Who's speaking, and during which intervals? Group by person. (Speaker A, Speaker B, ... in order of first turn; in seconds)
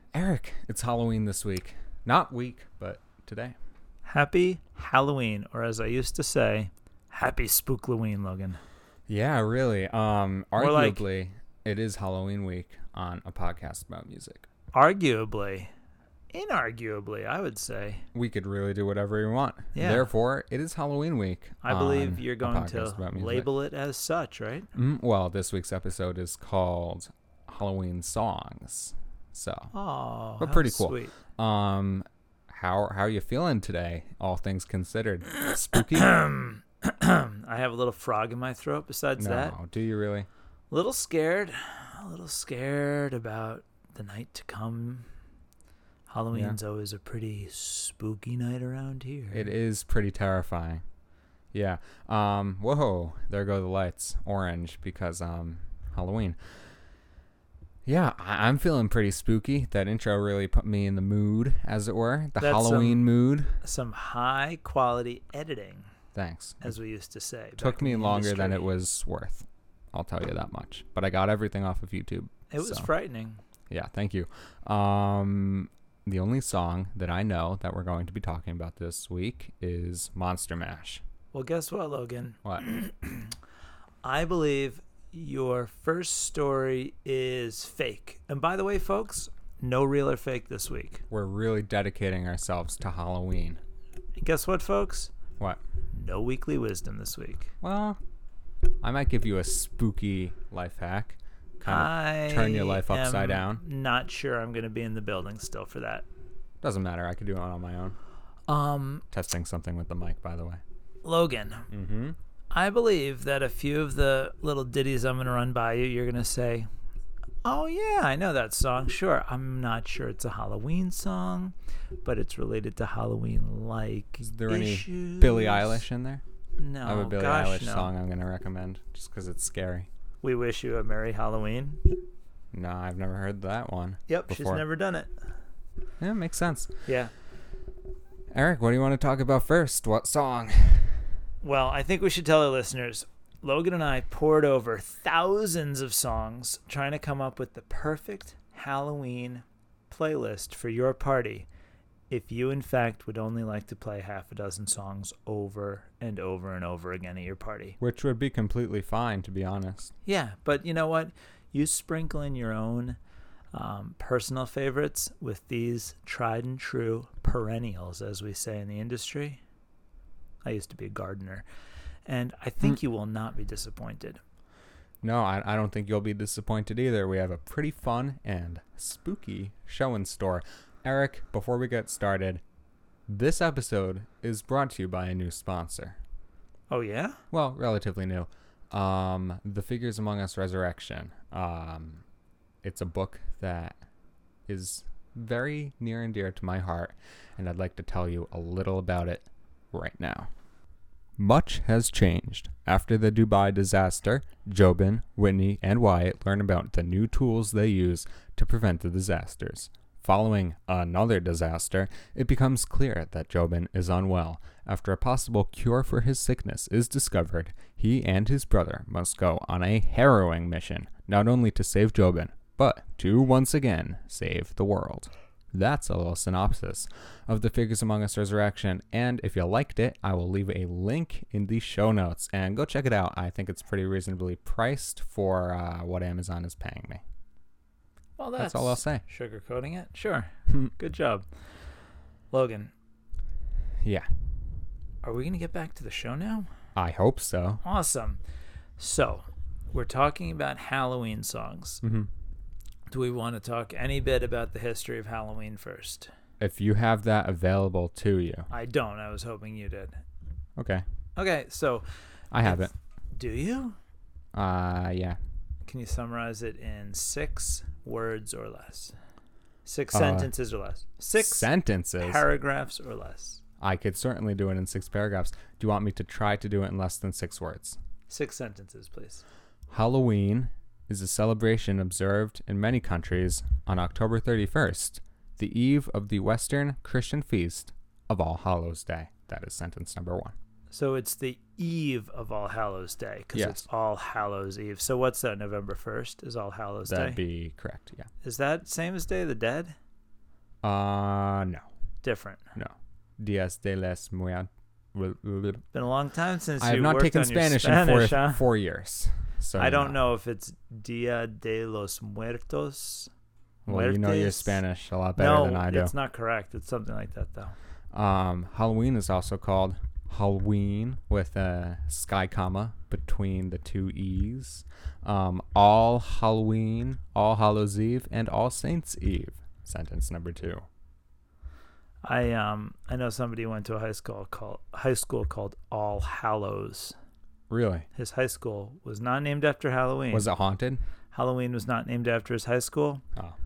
Speaker A: 0.1-3.5, 9.1-14.5, 18.1-23.5, 24.7-29.7, 30.4-36.2, 39.2-40.3, 46.3-46.6, 49.3-50.8, 51.5-56.4, 57.9-63.5, 66.1-66.7, 67.6-72.9, 73.7-81.0, 91.1-93.6, 97.6-98.0, 98.8-103.6, 106.6-108.0, 109.1-110.6, 111.7-112.2, 124.2-126.2, 126.8-129.9, 132.5-134.6, 136.0-136.8, 138.3-141.0, 157.8-159.9, 175.0-182.4, 183.1-186.0, 187.3-192.0, 192.6-193.8, 194.5-200.3, 201.2-237.0, 238.4-239.0, 246.8-247.6, 251.8-252.1, 256.4-258.5, 260.6-260.8, 262.3-262.7, 264.3-265.2, 269.9-270.3, 271.2-272.3, 273.6-277.8, 279.7-290.3, 293.3-293.6, 296.9-298.1, 300.6-301.6, 302.5-305.6, 306.6-310.0, 313.6-315.9, 317.9-330.6, 337.5-337.9, 340.1-340.8
Speaker B: 4.0-8.6, 10.6-11.0, 14.7-15.7, 16.3-18.0, 19.7-20.1, 21.6-24.7, 29.7-31.1, 35.5-39.5, 40.7-45.1, 46.1-49.5, 62.4-63.1, 63.6-65.9, 66.6-68.7, 72.5-73.4, 81.3-83.3, 84.0-91.0, 94.2-95.1, 95.9-97.5, 101.7-106.0, 108.5-109.0, 111.0-111.7, 112.5-116.7, 117.4-125.8, 126.6-127.9, 130.2-131.8, 134.1-135.3, 136.9-137.1, 141.4-151.5, 152.1-157.8, 160.0-163.0, 163.5-169.4, 170.4-171.4, 172.1-174.2, 186.7-187.2, 238.2-241.2, 242.3-242.7, 245.0-246.5, 247.6-248.2, 248.8-251.8, 252.9-256.1, 258.5-259.9, 261.2-261.9, 262.4-263.8, 265.6-268.9, 269.6-273.4, 278.1-279.2, 290.7-297.2, 298.2-299.7, 302.0-302.4, 305.7-308.4, 309.5-313.1, 313.7-314.6, 315.1-317.6, 332.0-336.9, 337.9-340.3, 341.1-343.0